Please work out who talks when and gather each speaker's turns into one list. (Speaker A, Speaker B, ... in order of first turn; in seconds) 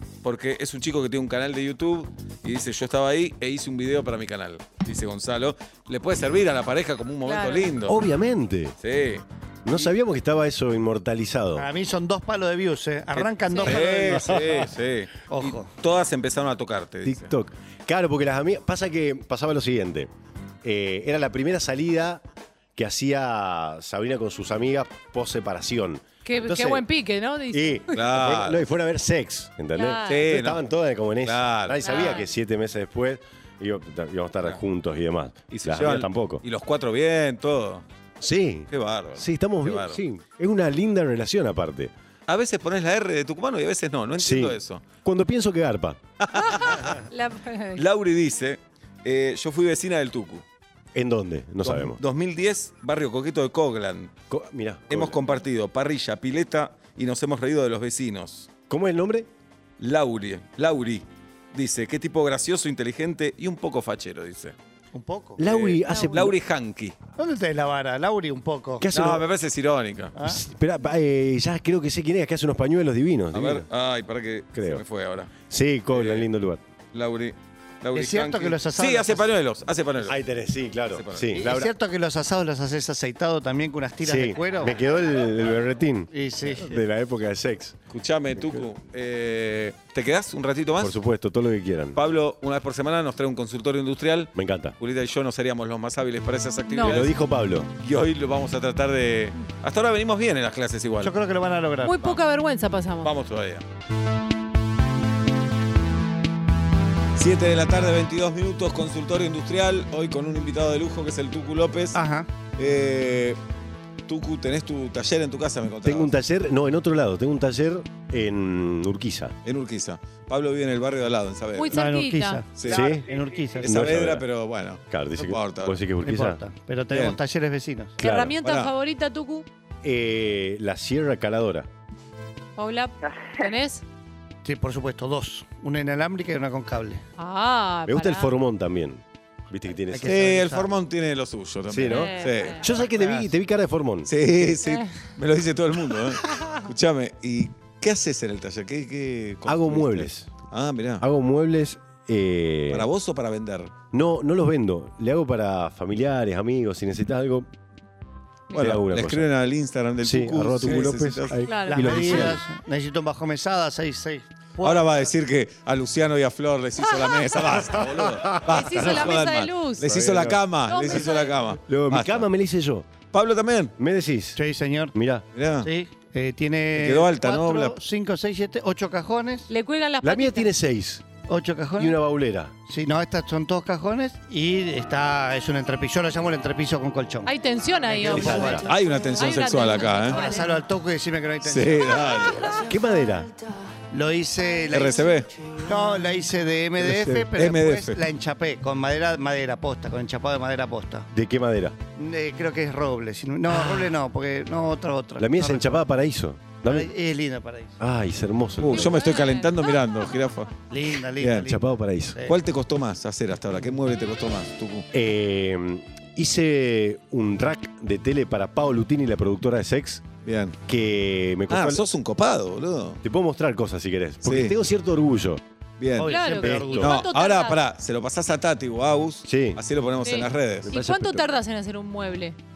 Speaker A: 0.2-8.0, 8.8-9.9, 13.1-17.3, 27.9-28.6, 30.1-30.6, 31.2-32.0, 35.5-37.9, 38.7-40.0, 42.3-44.9, 46.2-47.0, 47.8-50.4, 51.6-54.1, 54.9-58.5, 59.8-64.5, 65.4-67.0, 68.9-70.1, 73.3-75.3, 75.9-76.3, 76.9-80.2, 80.9-81.3, 87.9-91.0, 91.9-97.2, 97.8-101.1, 103.0-103.6, 107.2-112.0, 112.6-113.4, 114.1-116.1, 119.4-121.8, 122.6-122.8, 123.6-125.8, 126.9-127.2, 128.4-128.7, 140.1-142.6, 144.1-151.1, 152.7-153.7, 158.5-161.4, 164.6-172.3, 173.1-173.8, 175.3-175.7, 176.8-177.8, 188.5-190.2, 191.4-192.6, 194.7-195.3, 196.8-198.0, 208.6-210.5, 211.2-211.5, 212.2-214.9, 220.2-220.6, 221.5-223.0, 224.2-224.6, 225.8-226.2, 226.7-230.8
Speaker B: 7.3-7.7, 13.4-13.9, 26.2-28.1, 29.8-30.3, 31.8-32.3, 46.4-47.8, 65.9-66.3, 96.7-97.0, 101.8-103.1, 121.6-122.4, 128.0-129.4, 132.6-133.8, 137.2-138.3, 141.9-142.6, 161.4-162.3, 168.4-170.0, 170.7-171.4, 179.5-180.5, 187.2-190.6, 208.7-209.8, 226.0-227.6, 230.1-232.4
Speaker C: 7.8-8.8, 9.6-11.7, 17.1-20.1, 20.6-22.2, 22.8-26.9, 27.5-36.4, 38.2-41.9, 44.2-46.0, 50.9-52.0, 54.3-55.2, 58.7-59.3, 65.4-66.4, 68.8-69.3, 70.2-73.7, 74.5-74.8, 75.5-76.6, 80.0-81.7, 84.0-87.8, 90.8-92.0, 94.3-94.8, 96.8-97.7, 115.8-119.3, 122.7-123.1, 123.6-124.2, 124.9-126.4, 128.0-128.4, 129.8-131.7, 137.9-140.3, 141.7-144.1, 149.4-150.3, 151.0-152.9, 153.9-157.5, 158.5-159.3, 160.0-162.4, 169.8-170.4, 171.7-172.9, 173.8-174.4, 174.9-175.2, 180.0-181.1, 181.8-182.5, 188.1-188.7, 192.6-193.3, 201.1-201.8, 205.2-206.9, 207.8-209.0, 211.4-212.2, 214.9-220.1, 220.7-221.9, 223.0-225.4, 226.4-226.9, 229.2-229.6, 230.6-231.3
Speaker D: 11.6-14.7, 15.3-15.7, 64.9-65.4, 67.2-68.9, 77.9-79.3, 81.3-84.8, 86.1-86.7, 101.0-102.2, 111.9-112.3, 121.7-123.9, 126.0-128.0, 134.4-137.0, 139.9-140.7, 142.8-143.3, 161.7-165.0, 174.4-174.9, 175.6-179.5, 181.3-182.0, 182.7-188.7, 190.1-192.3, 193.9-201.1, 201.9-205.8, 206.7-207.8, 210.7-212.4, 226.0-227.0